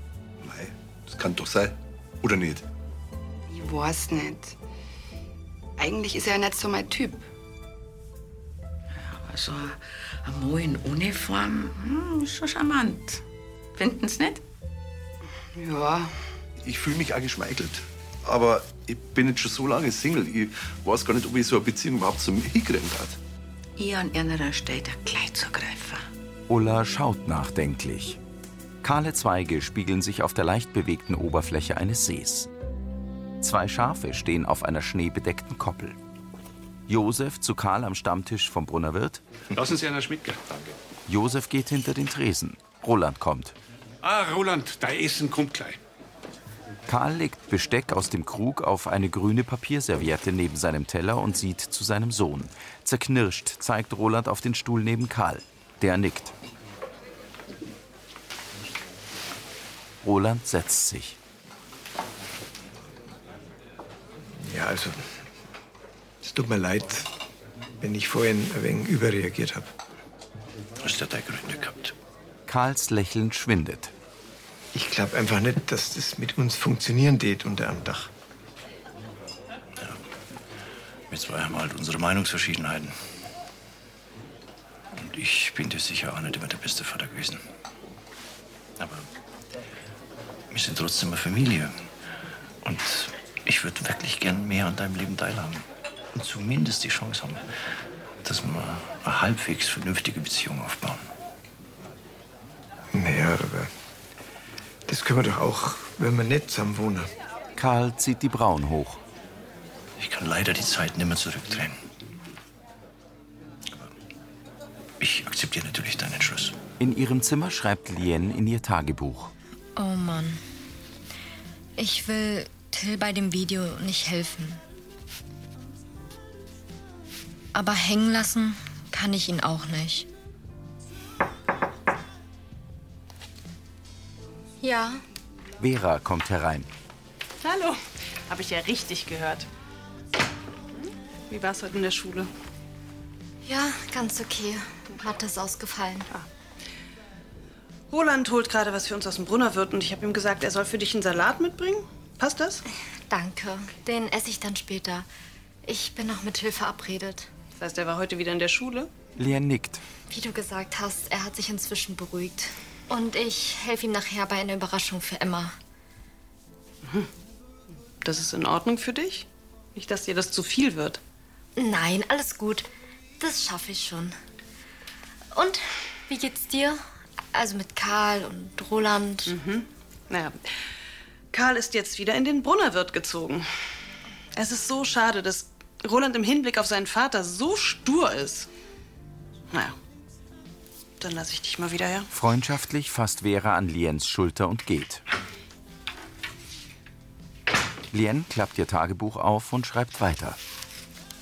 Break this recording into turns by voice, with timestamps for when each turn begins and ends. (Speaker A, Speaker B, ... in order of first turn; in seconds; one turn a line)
Speaker A: 0.4-2.6
Speaker B: 3.5-4.6
Speaker B: 5.8-7.2
Speaker C: 9.0-13.2
Speaker C: 13.8-14.4
Speaker B: 15.5-16.2
Speaker A: 16.6-23.2
Speaker C: 23.8-26.0
Speaker D: 26.5-28.2
Speaker D: 28.8-32.5
Speaker D: 33.4-36.0
Speaker D: 36.9-39.2
Speaker E: 39.5-40.7
Speaker D: 41.1-43.5
Speaker E: 44.0-45.8
Speaker D: 46.9-56.3
Speaker D: 60.0-61.2
Speaker F: 64.4-65.0
Speaker F: 66.2-67.1
Speaker F: 67.8-69.7
Speaker G: 70.8-71.9
Speaker D: 72.5-73.9
Speaker F: 74.7-78.1
Speaker G: 81.1-82.9
Speaker G: 85.0-87.4
Speaker G: 88.8-89.1
Speaker G: 90.5-91.7
Speaker G: 92.6-97.5
Speaker G: 98.2-101.1
Speaker F: 102.9-103.7
Speaker F: 104.9-107.1
Speaker D: 107.6-109.0
Speaker G: 110.0-111.8
Speaker G: 115.0-116.6
Speaker D: 116.8-119.3
Speaker H: 119.8-120.4
Speaker H: 121.8-124.6
Speaker H: 127.5-130.1
Speaker H: 134.6-135.0
Speaker D: 135.6-136.7
Speaker I: 137.4-139.5
Speaker I: 140.8-142.3
Speaker H: 143.4-146.1
Speaker I: 147.9-152.6
Speaker H: 153.1-155.1
Speaker H: 155.7-157.3
Speaker I: 157.6-158.9
Speaker D: 159.2-159.8
Speaker H: 160.1-165.6
Speaker I: 168.0-171.0
Speaker H: 171.6-172.7
Speaker H: 173.2-174.1
Speaker H: 175.3-176.8
Speaker H: 177.3-179.3
Speaker I: 179.3-180.4
Speaker I: 181.3-183.5
Speaker I: 184.3-188.5
Speaker I: 191.0-192.1
Speaker D: 192.1-195.0
Speaker D: 197.9-200.4